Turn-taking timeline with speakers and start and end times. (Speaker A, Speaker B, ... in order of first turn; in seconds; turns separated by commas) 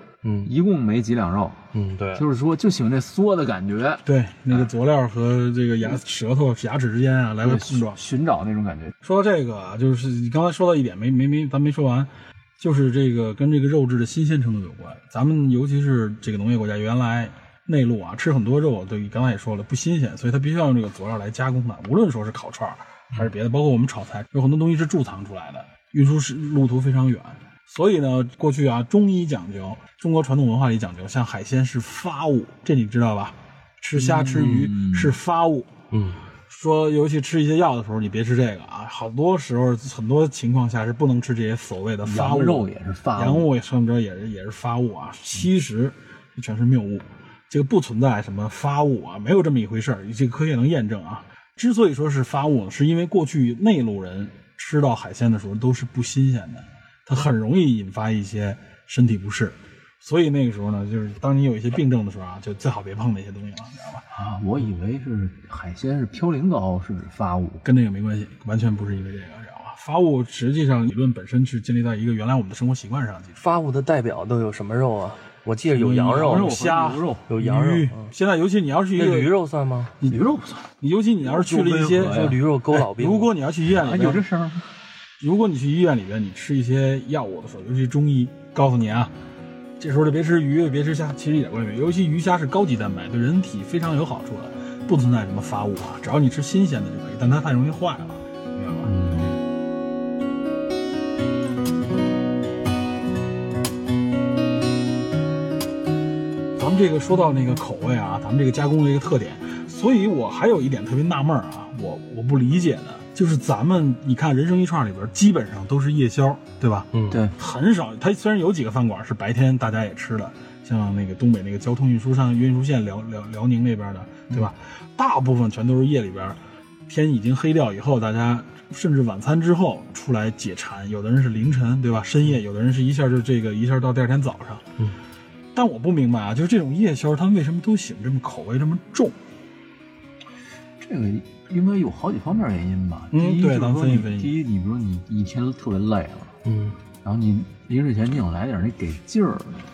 Speaker A: 0.2-0.5, Speaker B: 0.4-1.6, Speaker A: 1.7-2.2, Speaker B: 2.1-4.0, Speaker C: 4.0-8.0, Speaker B: 7.4-8.9, Speaker C: 9.0-35.7, Speaker B: 33.9-35.1, Speaker A: 35.9-36.2, Speaker C: 36.5-64.0, Speaker B: 42.0-43.5, Speaker B: 64.1-67.6, Speaker C: 67.6-73.4, Speaker A: 73.4-76.6, Speaker C: 75.7-79.3, Speaker B: 76.2-77.2, Speaker A: 77.3-78.1, Speaker A: 78.9-79.9, Speaker B: 80.0-82.4, Speaker C: 80.8-84.2, Speaker A: 82.0-83.3, Speaker B: 83.7-84.7, Speaker C: 85.2-89.1, Speaker C: 89.8-98.9, Speaker B: 98.8-99.4, Speaker C: 106.5-134.6, Speaker A: 116.9-117.2, Speaker B: 117.1-117.3, Speaker C: 135.5-139.2, Speaker B: 140.8-146.3, Speaker C: 143.1-144.3, Speaker A: 146.4-146.8, Speaker B: 147.0-149.7